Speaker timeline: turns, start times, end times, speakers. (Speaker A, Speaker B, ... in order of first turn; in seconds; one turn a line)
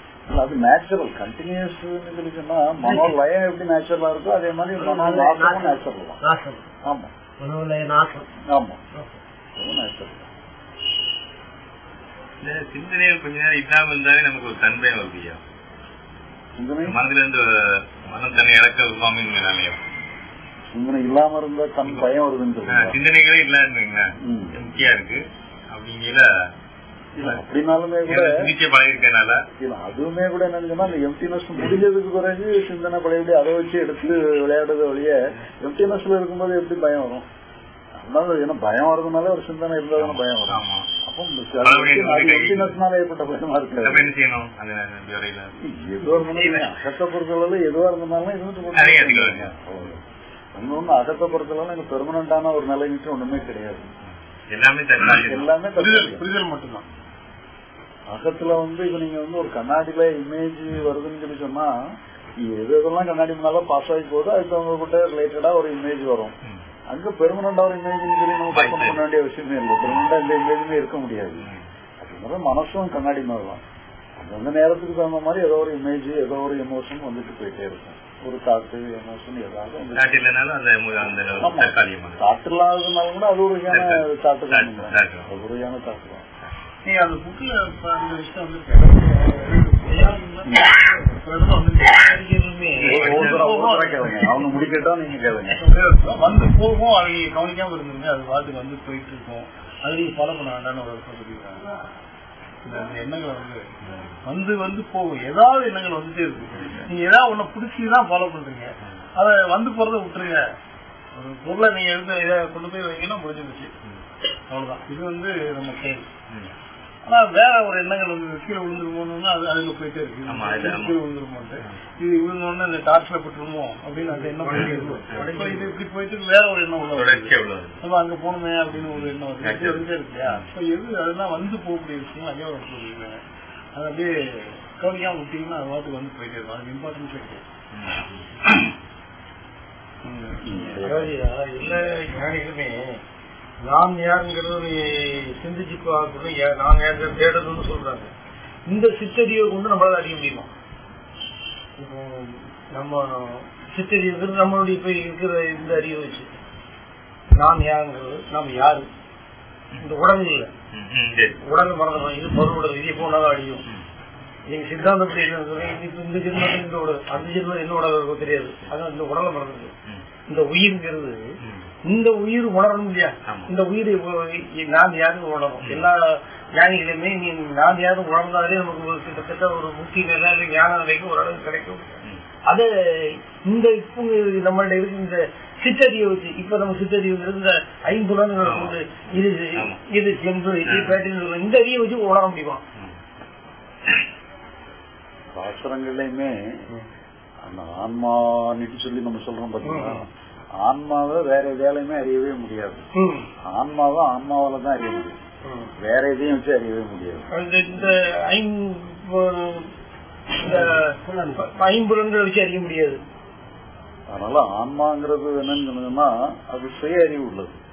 Speaker A: 0.3-6.2
Speaker B: 2.8-3.1
Speaker B: 4.8-6.6
Speaker A: 6.8-7.1
Speaker B: 7.4-8.3
Speaker A: 8.5-8.8
Speaker A: 9.6-10.3
Speaker C: 12.4-15.4
Speaker A: 16.6-17.0
Speaker C: 16.9-19.8
Speaker A: 20.7-23.0
Speaker C: 22.7-26.3
Speaker A: 24.2-24.6
Speaker A: 27.2-28.3
Speaker C: 28.1-29.4
Speaker A: 29.6-37.2
Speaker A: 38.0-44.1
Speaker C: 40.0-40.9
Speaker C: 41.6-42.8
Speaker C: 43.8-45.5
Speaker A: 45.6-50.0
Speaker C: 46.3-46.7
Speaker C: 48.7-49.5
Speaker A: 50.5-53.9
Speaker C: 54.5-55.6
Speaker A: 55.2-56.2
Speaker D: 55.8-56.8
Speaker A: 58.1-61.7
Speaker A: 62.4-66.3
Speaker A: 66.9-71.5
Speaker C: 68.5-69.0
Speaker A: 72.0-73.6
Speaker A: 74.2-80.2
Speaker C: 79.9-82.2
Speaker A: 81.4-86.2
Speaker C: 83.7-85.3
Speaker D: 86.8-92.2
Speaker A: 90.4-90.7
Speaker B: 91.9-93.7
Speaker C: 92.8-93.5
Speaker A: 92.8-95.6
Speaker D: 92.9-94.3
Speaker D: 95.5-101.7
Speaker D: 102.6-103.7
Speaker C: 103.8-104.1
Speaker D: 104.2-110.5
Speaker C: 106.6-106.9
Speaker D: 111.1-113.7
Speaker D: 114.5-116.0
Speaker D: 117.0-133.2
Speaker C: 120.3-121.0
Speaker B: 124.0-125.8
Speaker C: 124.5-125.3
Speaker C: 126.9-127.8
Speaker C: 128.7-130.5
Speaker D: 133.7-137.4
Speaker C: 137.7-138.5
Speaker D: 140.0-140.4
Speaker A: 140.4-141.1
Speaker B: 140.8-143.0
Speaker B: 143.6-148.1
Speaker B: 148.7-150.5
Speaker B: 151.8-156.3
Speaker B: 157.3-158.9
Speaker B: 159.8-160.5
Speaker C: 160.7-161.4
Speaker B: 161.4-163.6
Speaker B: 164.5-169.7
Speaker B: 170.3-181.9
Speaker C: 173.2-173.5
Speaker C: 175.6-175.9
Speaker B: 182.4-192.6
Speaker C: 188.4-188.8
Speaker C: 189.5-189.8
Speaker C: 190.7-191.0
Speaker A: 195.3-196.6
Speaker A: 197.4-200.1
Speaker B: 199.6-200.0
Speaker A: 200.6-202.9
Speaker B: 202.9-203.3
Speaker A: 203.4-205.2
Speaker B: 205.4-205.7
Speaker A: 205.8-207.3
Speaker B: 207.3-209.7
Speaker B: 210.4-213.0
Speaker A: 214.1-217.6